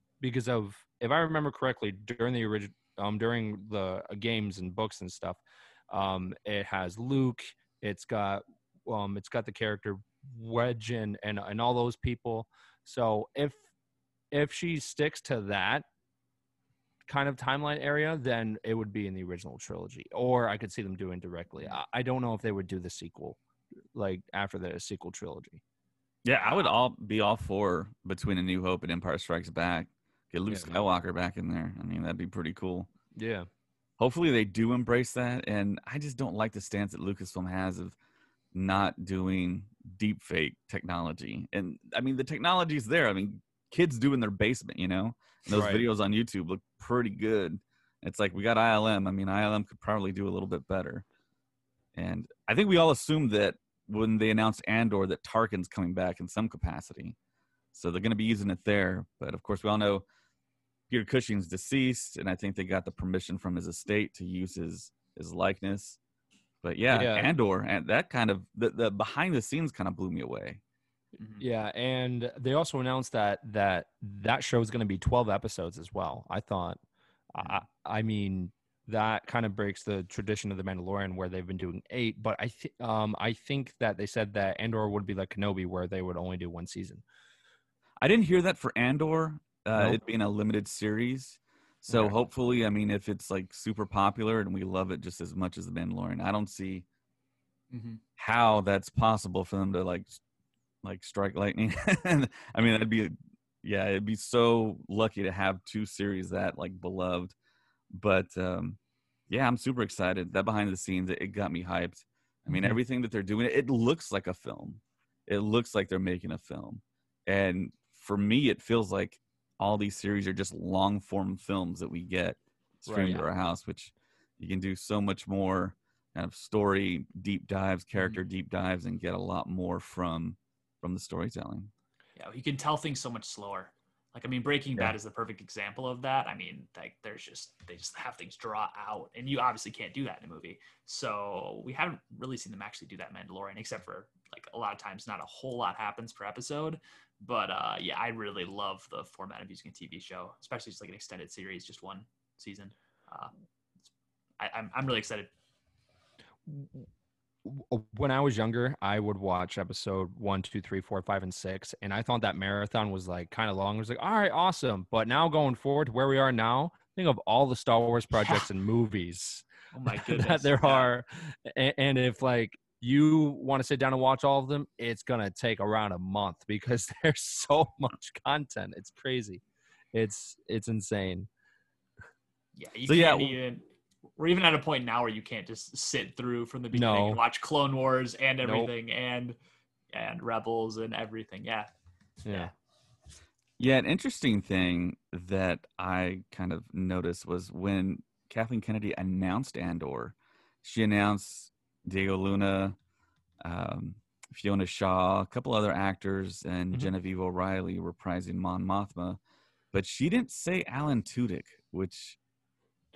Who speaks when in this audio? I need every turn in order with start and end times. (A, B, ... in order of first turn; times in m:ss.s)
0:00.2-0:13.6 A
0:14.3-0:15.8 A
0:17.1-0:23.4 A
0:23.9-0:25.6 A
0:26.2-0:32.9 B
0:26.3-0:26.7 C
0:30.5-0:30.8 A
0:33.2-0:33.5 A
0:34.0-0:37.9 B
0:38.5-0:51.0 B
0:45.5-0:45.8 A
0:51.9-0:57.1 B
0:57.7-1:00.0 B
1:00.9-1:06.0 B
1:06.6-1:10.6 B
1:06.9-1:07.3 A
1:11.4-1:16.8 A
1:17.3-1:27.0 A
1:28.0-1:36.8 B
1:29.7-1:30.0 A
1:31.9-1:32.1 A
1:37.7-1:38.0 C
1:38.2-1:40.2 B
1:40.8-1:47.3 B
1:47.9-1:48.8 B
1:49.3-2:11.7 B
2:02.8-2:03.3 A
2:12.2-2:33.3 C
2:34.4-2:35.3 C
2:36.5-2:36.8 A
2:37.4-2:59.4 A
2:49.7-2:50.9 C
2:59.9-3:01.3 A
3:02.6-3:03.6 C
3:02.9-3:03.3 B
3:04.2-3:09.4 C
3:06.7-3:07.2 A
3:08.4-3:08.7 A
3:09.9-3:11.7 C
3:12.2-3:12.5 A
3:13.6-3:22.8 B
3:23.4-3:29.2 B
3:29.7-3:32.2 B